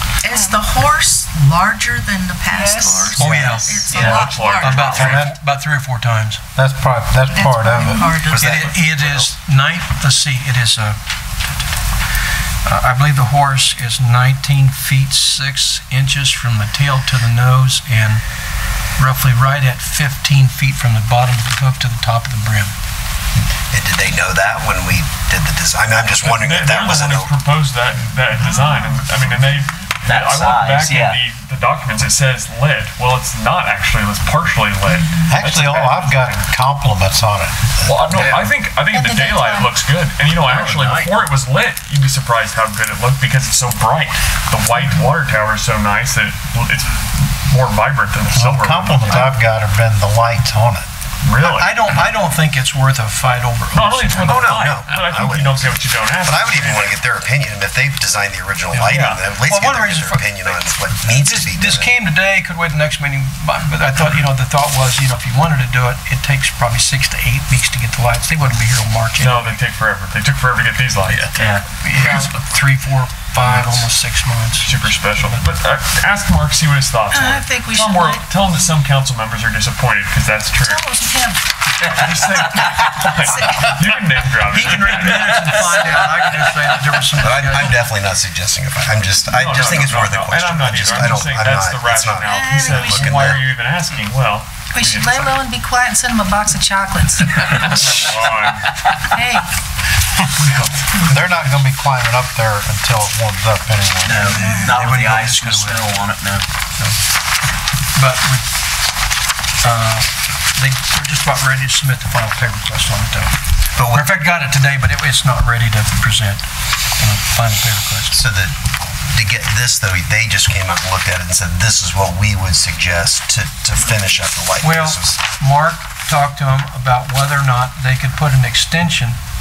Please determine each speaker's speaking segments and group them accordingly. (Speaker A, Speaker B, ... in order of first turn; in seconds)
Speaker A: 0.2-5.0, 7.3-8.5
Speaker B: 0.3-0.6, 2.5-3.1, 38.9-39.7, 77.1-78.2, 80.6-81.4, 83.2-84.0, 92.3-93.1, 94.7-97.2, 99.1-99.4
Speaker C: 3.1-6.4, 8.3-11.0, 12.6-18.2, 19.0-22.7, 51.4-54.6, 58.7-69.6, 71.8-75.4, 84.5-87.8, 104.2-106.0, 107.9-108.4, 109.6-113.4, 113.9-116.5, 117.0-118.2, 124.6-129.2
Speaker D: 3.2-4.4, 8.1-9.3, 23.7-27.3, 54.2-61.9, 87.2-93.4, 113.7-114.1, 118.1-118.6, 119.1-125.2
Speaker E: 3.9-5.2, 26.2-36.4, 37.8-49.3, 51.2-51.8, 53.7-57.0, 58.9-59.2, 69.2-71.3, 74.6-80.9, 81.8-85.8, 89.3-95.4, 97.5-98.7
Speaker F: 4.8-5.3, 6.5-8.1, 35.2-38.0, 48.3-50.9, 101.0-104.6
Speaker G: 30.0-31.2, 38.1-38.5, 40.4-41.2, 71.1-72.3, 85.1-86.3, 97.4-98.0, 104.0-106.5